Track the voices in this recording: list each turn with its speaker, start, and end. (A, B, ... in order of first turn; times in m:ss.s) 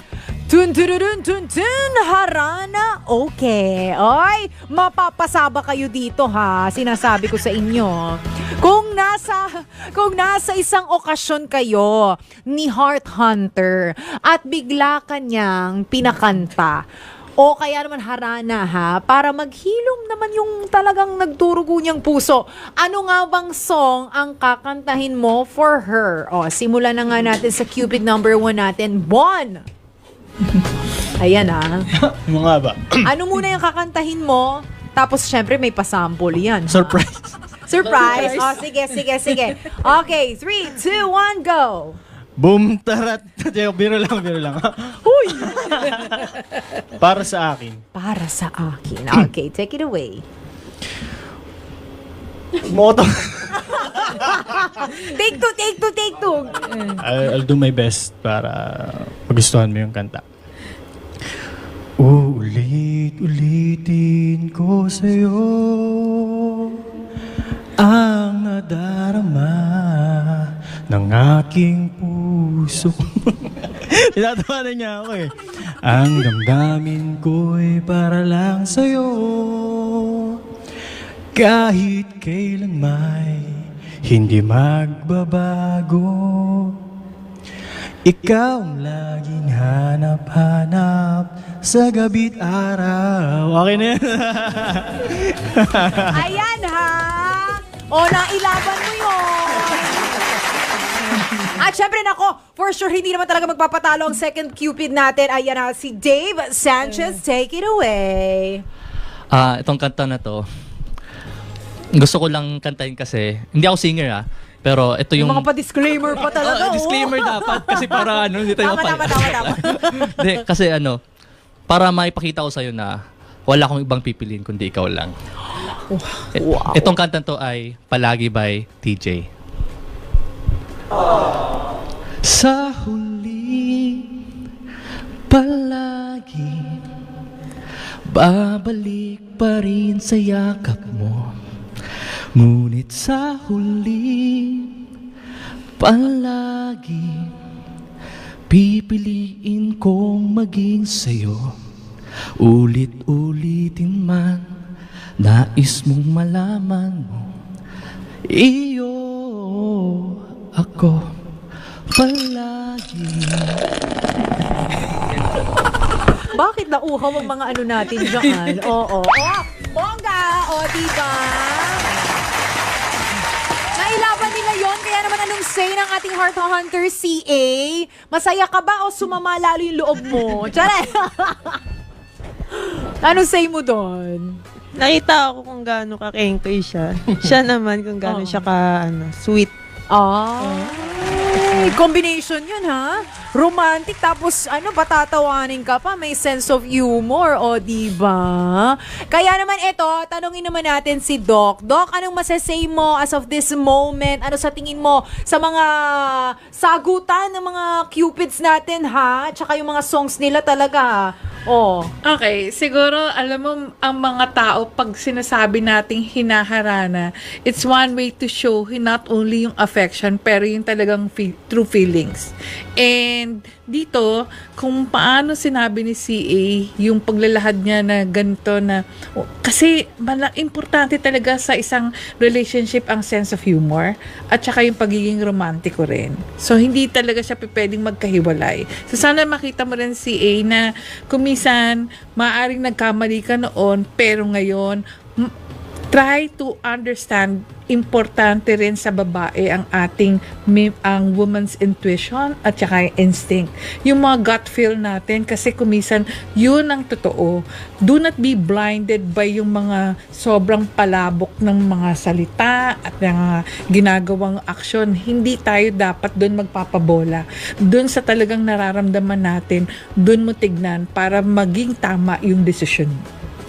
0:00.5-0:16.8 A
0:17.4-0:29.6 A
0:31.0-0:31.8 A
0:32.0-0:33.1 B
0:33.0-0:37.0 A
0:36.7-0:37.4 B
0:37.7-0:42.0 A
0:42.4-0:46.4 B
0:45.1-0:45.8 A
0:46.9-0:47.8 B
0:47.9-0:50.2 A
0:52.6-0:54.5 B
0:53.9-0:56.9 A
0:56.8-1:00.2 B
1:02.0-1:06.8 B
1:07.8-1:20.4 B
1:21.3-1:26.8 B
1:28.0-1:36.2 B
1:36.1-1:40.2 A
1:41.1-1:48.6 A
1:49.3-1:50.4 C
1:51.9-1:55.4 C
1:55.2-2:00.3 A
1:56.3-2:01.0 C
2:01.7-2:02.9 C
2:03.5-2:05.1 C
2:06.4-2:09.2 C
2:12.2-2:14.1 C
2:15.3-2:16.8 C
2:18.1-2:21.3 C
2:22.4-2:24.8 C
2:25.8-2:27.3 C
2:28.5-2:31.5 C
2:32.4-2:34.4 C
2:35.2-2:37.2 C
2:38.3-2:41.0 C
2:41.9-2:43.6 C
2:46.3-2:52.0 A
2:53.7-3:01.6 A
3:02.5-3:04.4 A
3:04.8-3:09.5 D
3:08.0-3:08.5 A
3:09.9-3:31.9 A
3:32.0-4:05.3 E
4:05.9-4:33.0 E